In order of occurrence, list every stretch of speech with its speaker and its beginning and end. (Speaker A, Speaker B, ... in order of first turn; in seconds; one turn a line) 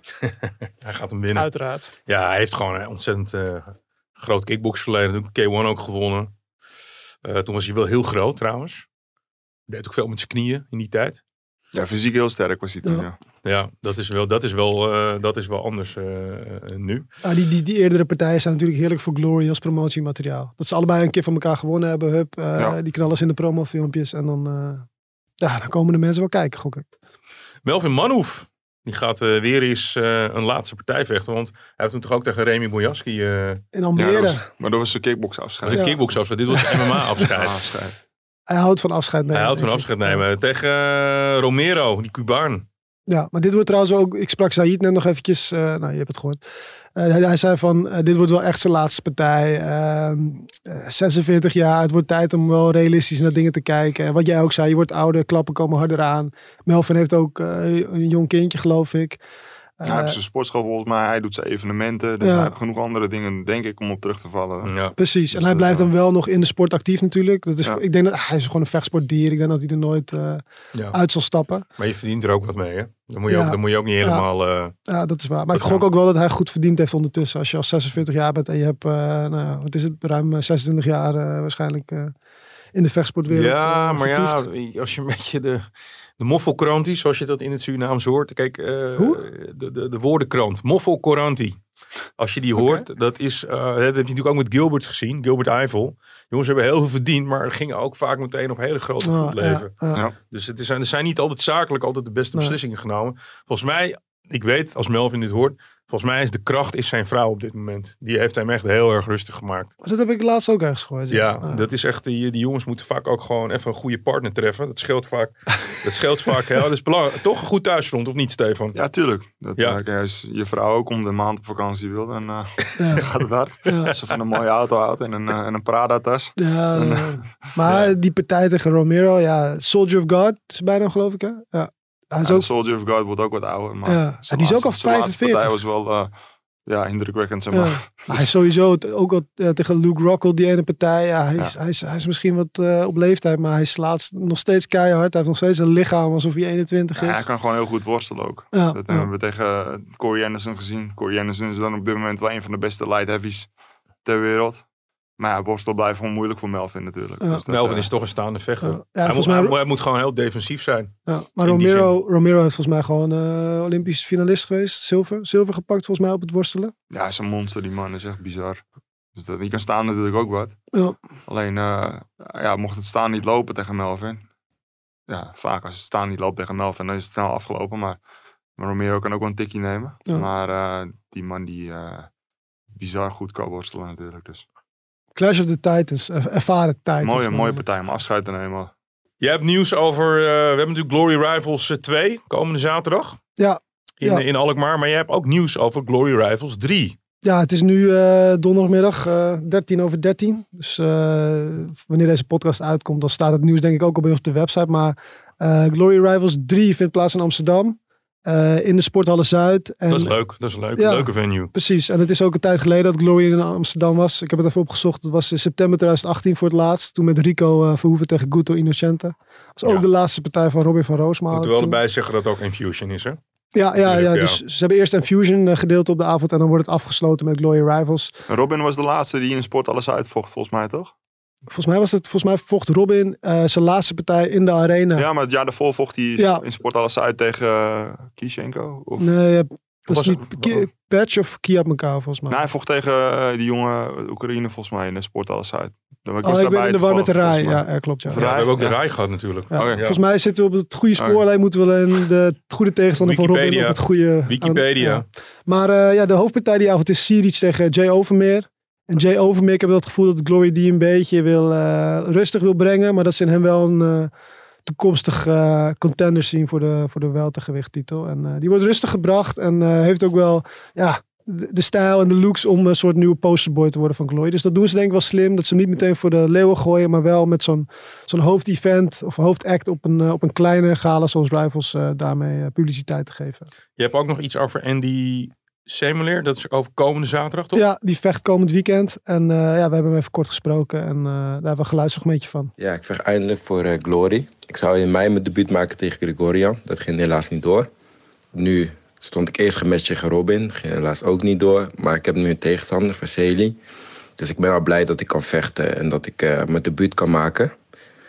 Speaker A: 0.2-1.5
Speaker B: 1.3-1.9
Speaker A: 2.1-6.3
Speaker A: 7.2-8.9
Speaker A: 9.7-11.2
Speaker C: 11.7-13.2
Speaker A: 13.4-17.1
Speaker B: 17.2-24.9
Speaker B: 25.4-26.9
Speaker A: 27.6-33.6
Speaker B: 33.7-34.4
Speaker C: 34.0-35.9
Speaker A: 35.6-37.6
Speaker B: 35.7-36.0
Speaker C: 37.4-37.9
Speaker B: 38.5-40.2
Speaker A: 39.3-42.7
Speaker B: 43.1-46.4
Speaker B: 47.0-59.2
Speaker B: 59.8-60.1
Speaker C: 59.9-64.7
Speaker B: 62.2-62.5
Speaker A: 64.7-65.0
Speaker B: 65.0-71.7
Speaker C: 65.3-65.9
Speaker A: 71.8-74.8
Speaker B: 73.3-74.2
Speaker B: 74.9-82.1
Speaker A: 75.5-75.8
Speaker B: 82.8-84.4
Speaker A: 83.3-91.6
Speaker B: 89.0-89.2
Speaker A: 92.2-109.7
Speaker B: 92.6-92.8
Speaker B: 99.0-100.0
Speaker B: 109.8-111.7
Speaker A: 111.1-118.8
Speaker C: 118.8-127.9
Speaker B: 122.8-123.0
Speaker B: 123.7-123.9
Speaker B: 126.4-132.5
Speaker C: 132.2-136.1
Speaker B: 133.9-135.5
Speaker C: 136.7-138.3
Speaker B: 137.5-147.2
Speaker C: 147.0-153.5
Speaker B: 148.5-149.1
Speaker C: 154.0-154.7
Speaker C: 155.2-157.9
Speaker A: 157.5-161.9
Speaker B: 158.6-159.6
Speaker B: 161.1-166.7
Speaker C: 166.9-168.6
Speaker C: 169.2-170.6
Speaker C: 171.3-174.2
Speaker C: 175.1-178.0
Speaker C: 178.6-182.1
Speaker C: 182.8-184.4
Speaker B: 185.2-187.6
Speaker C: 187.0-188.7
Speaker A: 189.2-193.2
Speaker B: 193.4-194.2
Speaker A: 194.0-197.0
Speaker B: 197.2-210.2
Speaker A: 209.9-211.5
Speaker B: 210.8-221.8
Speaker A: 221.3-223.2
Speaker B: 223.6-228.1
Speaker A: 223.8-224.4
Speaker C: 228.3-230.9
Speaker B: 231.5-235.1
Speaker C: 235.0-239.1
Speaker B: 236.2-236.4
Speaker B: 239.0-242.4
Speaker A: 239.9-240.6
Speaker C: 242.3-248.8
Speaker B: 246.2-248.3
Speaker A: 248.2-250.0
Speaker B: 249.5-264.1
Speaker C: 249.5-249.8
Speaker A: 253.0-255.1
Speaker B: 264.6-283.5
Speaker A: 283.8-287.6
Speaker B: 287.6-292.5
Speaker D: 292.6-297.7
Speaker D: 298.3-303.6
Speaker D: 304.2-307.5